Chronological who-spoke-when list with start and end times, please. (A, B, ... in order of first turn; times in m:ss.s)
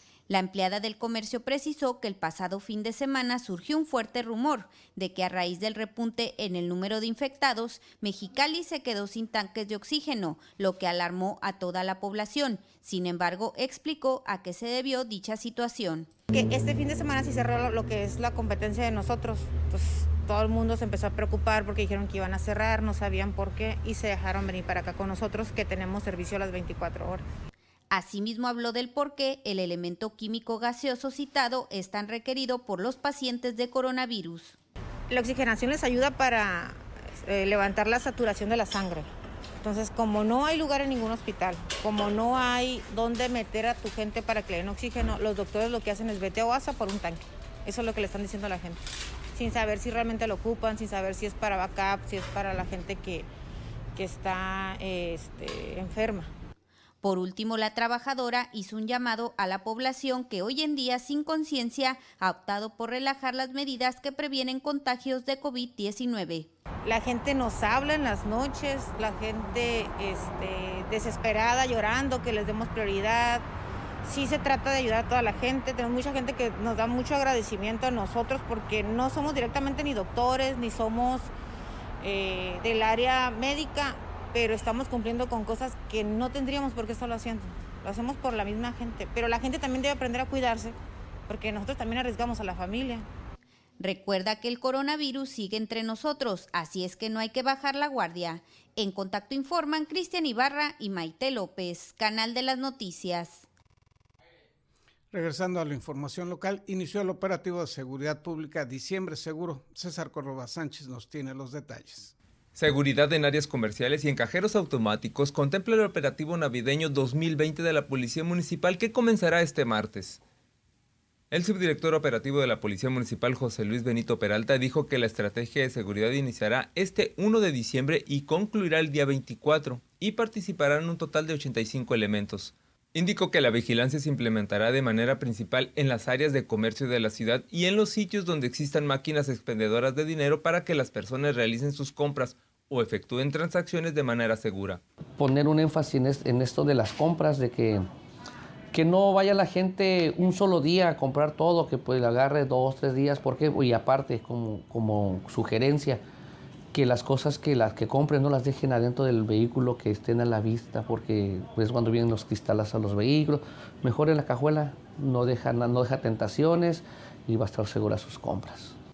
0:00.3-0:16.1 A
0:16.3-0:27.2 B
0:27.9-0:34.6 A
0:35.1-0:39.1 B
0:39.6-0:48.8 B
0:49.3-0:53.3 B
0:53.9-0:56.3 B
0:57.0-1:06.5 A
1:06.8-1:13.4 B
1:14.0-1:21.3 B
1:22.0-1:30.7 B
1:31.3-1:33.1 B
1:33.8-1:43.4 A
1:45.1-1:52.1 C
1:52.5-2:00.2 D
2:01.3-2:24.8 D
2:25.2-2:27.9 E
2:28.7-2:36.0 E
2:36.7-2:48.8 E